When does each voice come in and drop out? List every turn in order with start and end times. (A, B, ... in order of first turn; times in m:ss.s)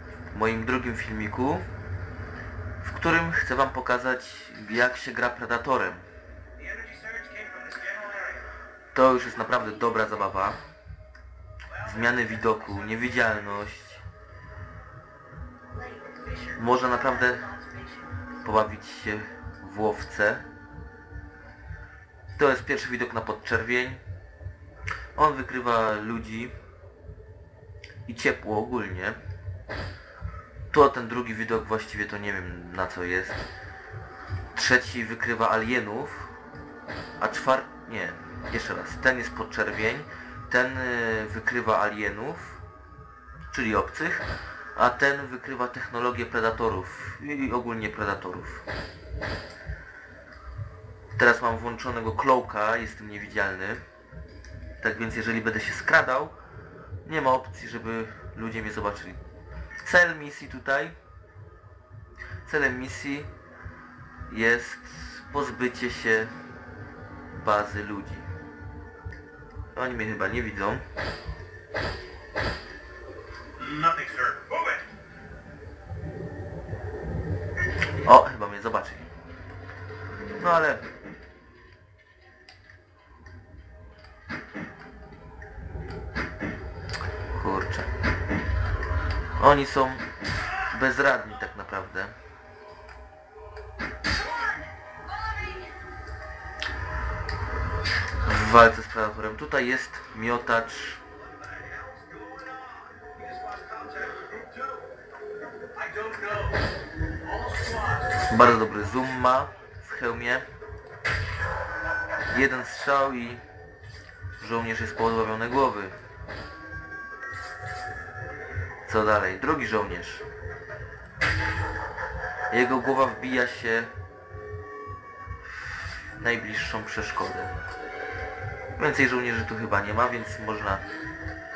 0:00.3-0:01.7 A
0:02.8-0:06.0 A
0:06.7-0:08.2 B
0:08.9-0:10.6 A
0:11.8-0:14.0 A
0:15.9-0:16.3 B
0:16.5-0:17.7 A
0:18.4-0:20.5 A
0:22.4-0:24.0 A
0:25.1-0:26.5 A
0:28.0-0:29.2 A
0:30.7-0:33.4 A
0:34.5-0:36.3 A
0:37.2-0:42.6 A
0:43.5-0:48.6 A
0:51.2-0:53.8 A
0:54.8-0:56.4 A
0:57.0-0:59.2 A
0:59.8-1:01.0 A
1:02.4-1:03.3 A
1:04.3-1:06.3 A
1:07.3-1:08.3 A
1:09.7-1:10.8 A
1:13.6-1:14.6 B
1:18.0-1:19.1 A
1:20.4-1:20.8 A
1:27.3-1:27.9 A
1:29.4-1:30.0 A
1:30.7-1:32.1 A
1:38.2-1:41.0 A
1:41.7-1:44.6 B
1:45.8-1:46.5 B
1:47.5-1:47.8 B
1:48.3-1:50.4 A
1:52.3-1:53.4 A
1:54.4-1:55.9 A
1:58.8-2:00.2 A
2:02.5-2:03.9 A
2:05.5-2:07.6 A
2:08.8-2:10.8 A